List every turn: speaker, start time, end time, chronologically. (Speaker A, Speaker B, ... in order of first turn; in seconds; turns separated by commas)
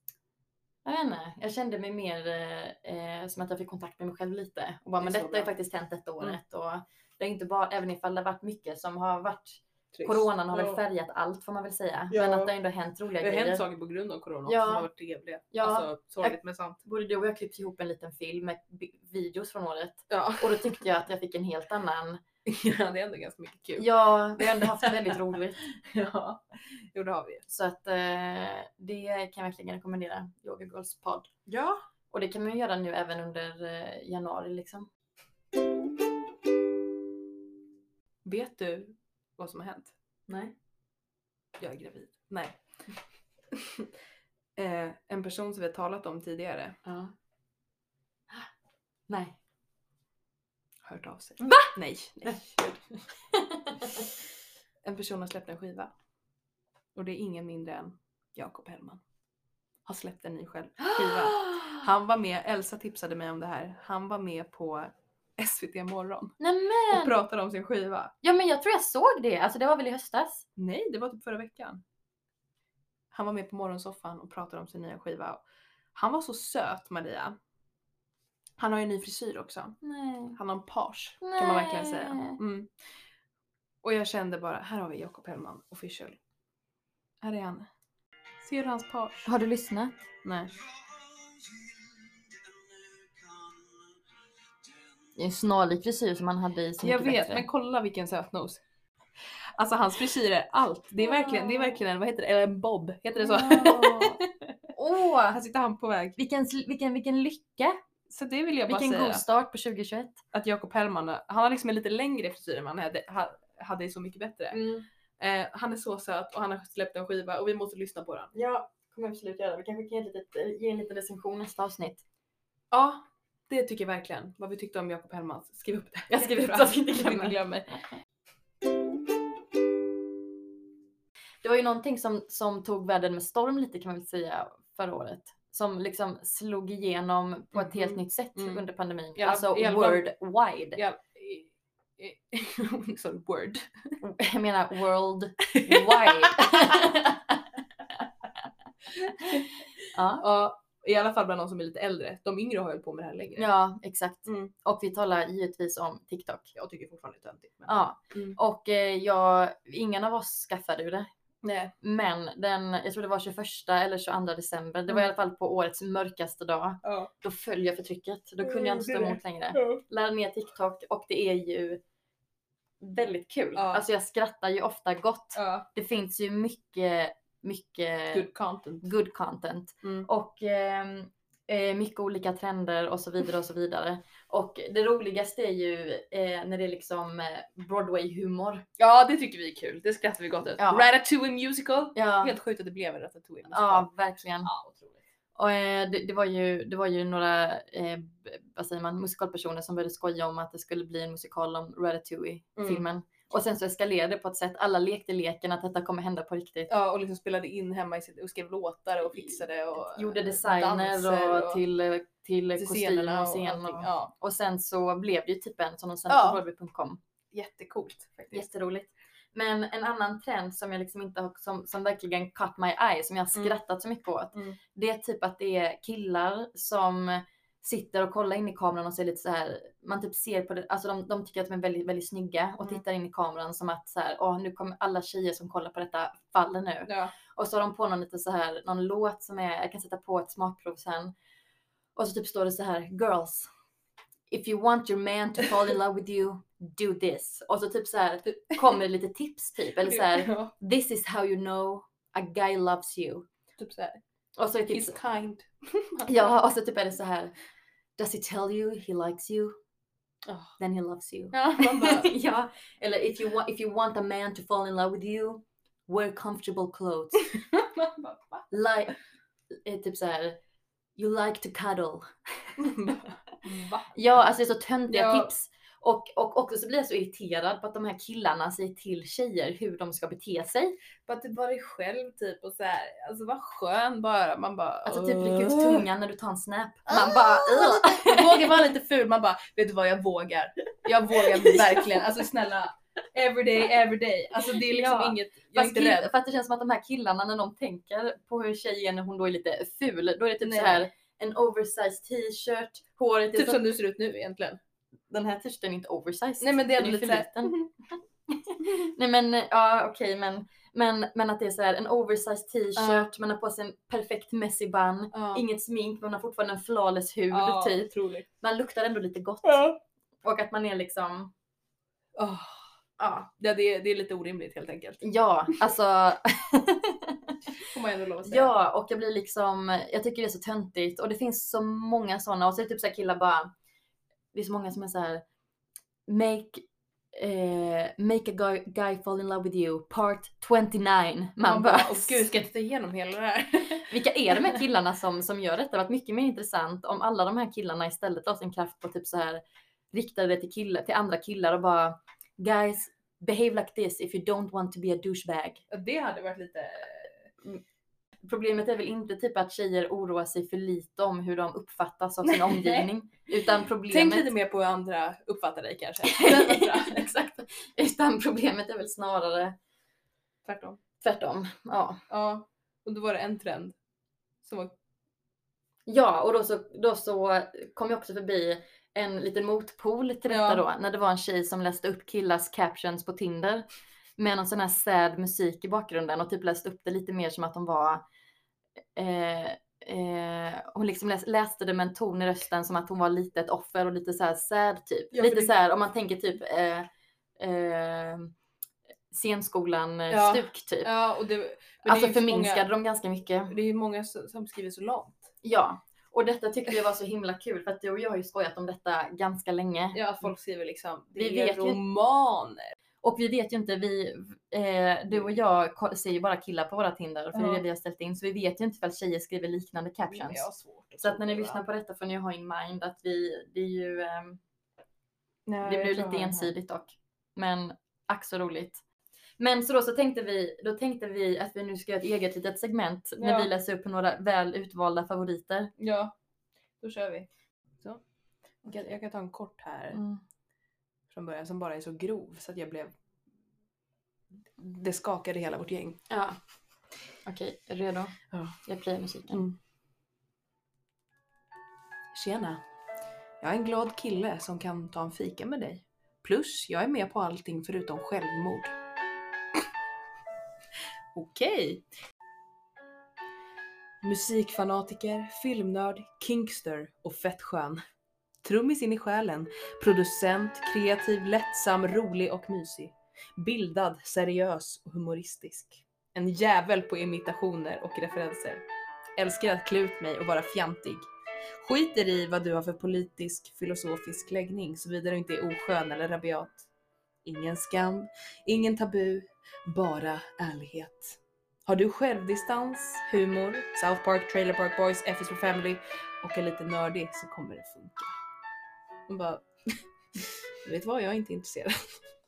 Speaker A: 0.8-13.7, Speaker B: 5.0-5.5, Speaker B: 9.9-10.8, Speaker B: 12.1-12.5, Speaker B: 13.2-16.8, Speaker A: 14.5-14.9, Speaker A: 15.5-22.2, Speaker B: 20.1-20.8, Speaker B: 22.5-25.2, Speaker A: 23.8-25.6, Speaker B: 25.7-27.4, Speaker A: 27.5-31.3, Speaker B: 31.5-31.8, Speaker A: 32.1-34.9, Speaker B: 38.2-39.9, Speaker A: 40.3-40.5, Speaker B: 41.6-42.6, Speaker B: 43.5-43.9, Speaker B: 44.6-46.8, Speaker A: 46.8-47.1, Speaker A: 49.1-49.4, Speaker B: 50.8-53.0, Speaker A: 51.4-51.7, Speaker A: 53.3-54.0, Speaker B: 54.8-55.9, Speaker B: 57.0-59.0, Speaker B: 59.9-66.3, Speaker A: 60.8-61.9, Speaker A: 66.4-67.2, Speaker B: 66.9-68.1, Speaker A: 68.2-70.5, Speaker B: 70.6-71.8, Speaker B: 73.1-75.4, Speaker B: 76.0-77.4, Speaker B: 78.6-79.8, Speaker A: 79.8-80.4, Speaker B: 80.3-82.7, Speaker A: 81.2-82.4, Speaker B: 83.8-86.2, Speaker B: 87.2-87.7, Speaker B: 88.4-89.3, Speaker A: 89.2-90.0, Speaker B: 90.2-90.6, Speaker A: 95.2-97.5, Speaker B: 96.8-98.6, Speaker B: 99.2-104.2, Speaker A: 101.0-101.8, Speaker A: 103.2-105.4, Speaker B: 105.3-106.2, Speaker A: 106.2-107.8, Speaker B: 108.1-109.2, Speaker A: 108.7-110.2, Speaker B: 110.3-114.6, Speaker A: 114.5-114.9, Speaker B: 115.2-118.3, Speaker A: 118.3-122.0, Speaker B: 122.7-127.8, Speaker A: 126.1-127.4, Speaker A: 131.4-140.8, Speaker B: 137.5-138.6, Speaker B: 139.2-140.0, Speaker B: 140.8-144.0, Speaker A: 144.0-147.4, Speaker B: 145.5-146.9, Speaker B: 148.9-149.6, Speaker A: 149.9-150.2, Speaker B: 150.1-153.5, Speaker A: 153.4-156.5, Speaker B: 154.3-154.5, Speaker B: 156.6-158.4, Speaker A: 157.7-161.1, Speaker B: 161.4-161.7, Speaker A: 161.8-171.8, Speaker B: 166.8-167.1, Speaker B: 168.4-169.8, Speaker A: 172.8-178.3, Speaker B: 173.6-173.8, Speaker B: 175.3-175.7, Speaker B: 178.1-178.9, Speaker A: 178.8-188.6, Speaker B: 179.8-180.1, Speaker B: 188.8-193.9, Speaker A: 190.6-190.9, Speaker A: 191.9-192.3, Speaker A: 193.5-194.5, Speaker B: 194.4-195.0, Speaker A: 195.4-206.7, Speaker B: 202.6-202.8, Speaker B: 206.7-211.6, Speaker A: 209.1-217.0, Speaker B: 212.6-214.1, Speaker B: 216.1-216.4, Speaker B: 217.3-218.4, Speaker A: 218.3-241.1, Speaker B: 236.9-237.1, Speaker A: 241.9-243.5, Speaker A: 244.3-253.3, Speaker B: 249.8-250.5, Speaker B: 253.6-254.0, Speaker A: 254.4-254.9, Speaker B: 254.7-256.3, Speaker A: 256.1-257.3, Speaker A: 258.0-259.6, Speaker B: 260.3-260.6, Speaker A: 260.6-267.2, Speaker B: 261.3-262.2, Speaker B: 267.2-268.5, Speaker A: 268.5-268.9, Speaker A: 269.6-270.4, Speaker A: 271.0-272.9, Speaker B: 272.6-274.0, Speaker A: 273.9-280.8, Speaker B: 274.9-275.3, Speaker B: 281.1-285.9, Speaker A: 284.9-288.5, Speaker B: 286.9-296.1, Speaker A: 291.1-291.9, Speaker A: 294.5-303.7, Speaker B: 300.4-300.9, Speaker B: 303.3-304.6, Speaker A: 305.1-307.6, Speaker B: 306.4-307.7, Speaker A: 308.3-321.3, Speaker B: 312.8-313.1, Speaker B: 315.1-315.4, Speaker B: 317.3-318.3, Speaker B: 319.4-319.8, Speaker B: 322.2-322.6, Speaker A: 323.0-323.3, Speaker B: 323.4-325.0, Speaker A: 325.0-327.4, Speaker B: 327.6-328.5, Speaker A: 328.2-333.5, Speaker A: 334.3-335.2, Speaker A: 336.1-342.4, Speaker B: 341.4-343.9, Speaker A: 343.9-355.6, Speaker B: 355.7-357.3, Speaker A: 358.2-364.3, Speaker B: 362.2-362.9, Speaker B: 363.9-367.1, Speaker A: 366.1-369.6, Speaker B: 370.5-370.8, Speaker A: 371.0-372.0, Speaker B: 372.1-373.8, Speaker B: 374.4-374.7, Speaker A: 375.9-383.7, Speaker B: 380.3-380.6, Speaker A: 384.2-388.0, Speaker A: 388.9-396.9, Speaker B: 395.1-395.5, Speaker A: 397.4-398.3, Speaker A: 399.1-400.9, Speaker B: 400.1-402.7, Speaker A: 401.8-403.5, Speaker B: 403.5-405.4, Speaker A: 405.4-410.0, Speaker B: 409.9-412.7, Speaker A: 411.2-411.8, Speaker A: 413.0-420.4, Speaker B: 417.3-417.6, Speaker B: 420.1-421.6, Speaker A: 421.0-424.4, Speaker B: 425.5-426.5, Speaker A: 425.6-428.8, Speaker A: 429.4-435.7, Speaker B: 433.2-433.5, Speaker B: 435.8-436.1, Speaker B: 436.8-437.3, Speaker B: 438.6-440.0, Speaker A: 439.9-440.2, Speaker B: 441.1-442.9, Speaker B: 444.6-446.0, Speaker A: 446.1-446.4, Speaker A: 447.2-449.4, Speaker B: 448.3-448.6, Speaker B: 449.3-449.6, Speaker B: 452.1-452.6, Speaker B: 453.4-458.7, Speaker B: 461.1-461.8, Speaker B: 464.0-467.8, Speaker B: 468.4-478.6, Speaker B: 479.2-481.0, Speaker B: 481.6-486.7, Speaker B: 487.2-498.1, Speaker B: 499.1-499.5, Speaker B: 500.2-502.0